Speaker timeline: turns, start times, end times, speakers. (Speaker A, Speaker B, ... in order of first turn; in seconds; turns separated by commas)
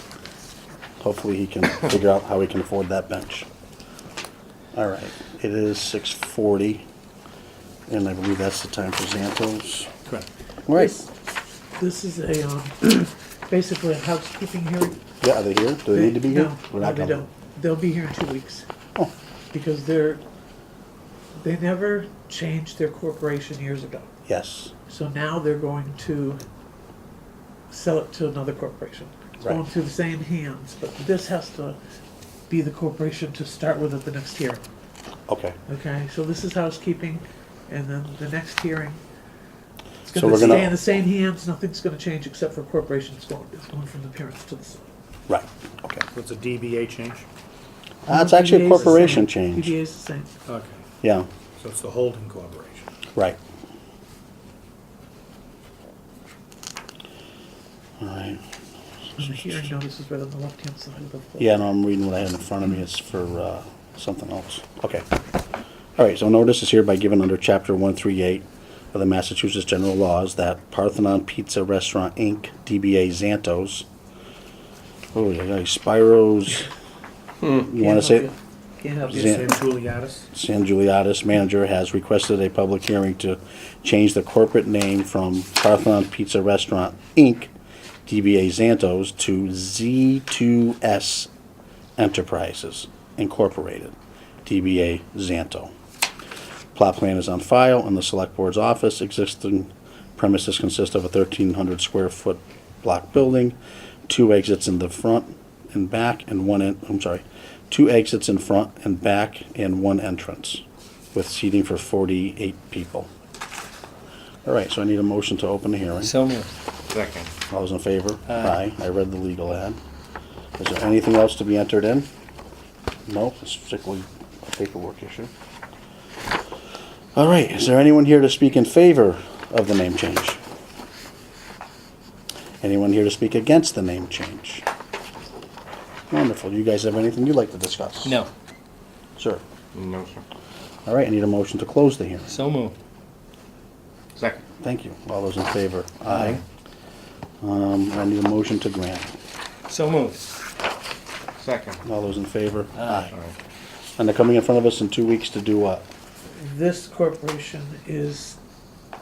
Speaker A: 1.0-3.5, Speaker A: 4.7-6.8, Speaker A: 7.9-9.9, Speaker A: 10.7-11.0, Speaker B: 10.7-11.1, Speaker B: 11.8-15.0, Speaker A: 15.2-17.2, Speaker B: 15.9-18.7, Speaker B: 19.5-20.2, Speaker B: 21.4-24.1, Speaker A: 24.3-24.7, Speaker B: 24.9-26.4, Speaker B: 27.7-31.8, Speaker B: 32.5-34.6, Speaker A: 35.3-35.6, Speaker B: 35.7-39.0, Speaker B: 40.0-44.9, Speaker A: 40.1-40.8, Speaker A: 45.3-46.0, Speaker C: 46.1-47.3, Speaker B: 48.1-50.3, Speaker A: 48.1-49.7, Speaker C: 50.5-50.8, Speaker A: 51.0-51.3, Speaker C: 51.6-52.9, Speaker A: 58.0-58.4, Speaker A: 59.1-59.7, Speaker B: 59.2-61.6, Speaker A: 61.4-65.0, Speaker A: 66.0-73.9, Speaker A: 75.1-76.7, Speaker A: 77.5-78.3, Speaker B: 77.6-79.4, Speaker A: 79.1-79.6, Speaker C: 79.1-80.3, Speaker A: 80.3-87.5, Speaker A: 88.1-91.3, Speaker A: 92.0-95.7, Speaker A: 96.8-103.6, Speaker A: 104.1-110.6, Speaker A: 111.1-113.1, Speaker A: 114.5-116.1, Speaker D: 116.0-116.5, Speaker E: 116.9-117.3, Speaker A: 117.5-119.8, Speaker D: 118.3-118.6, Speaker A: 120.6-122.1, Speaker A: 123.1-125.3, Speaker A: 127.2-130.4, Speaker A: 132.6-134.7, Speaker A: 136.1-138.2, Speaker D: 138.0-138.3, Speaker A: 139.2-139.4, Speaker E: 139.7-140.2, Speaker A: 140.9-142.4, Speaker D: 142.3-142.8, Speaker E: 144.2-144.4, Speaker A: 144.6-146.4, Speaker D: 146.1-146.4, Speaker A: 147.4-149.1, Speaker D: 149.7-150.3, Speaker E: 151.4-151.8, Speaker A: 151.8-153.1, Speaker D: 152.8-153.1, Speaker E: 153.1-153.3, Speaker A: 154.0-155.9, Speaker B: 156.3-158.4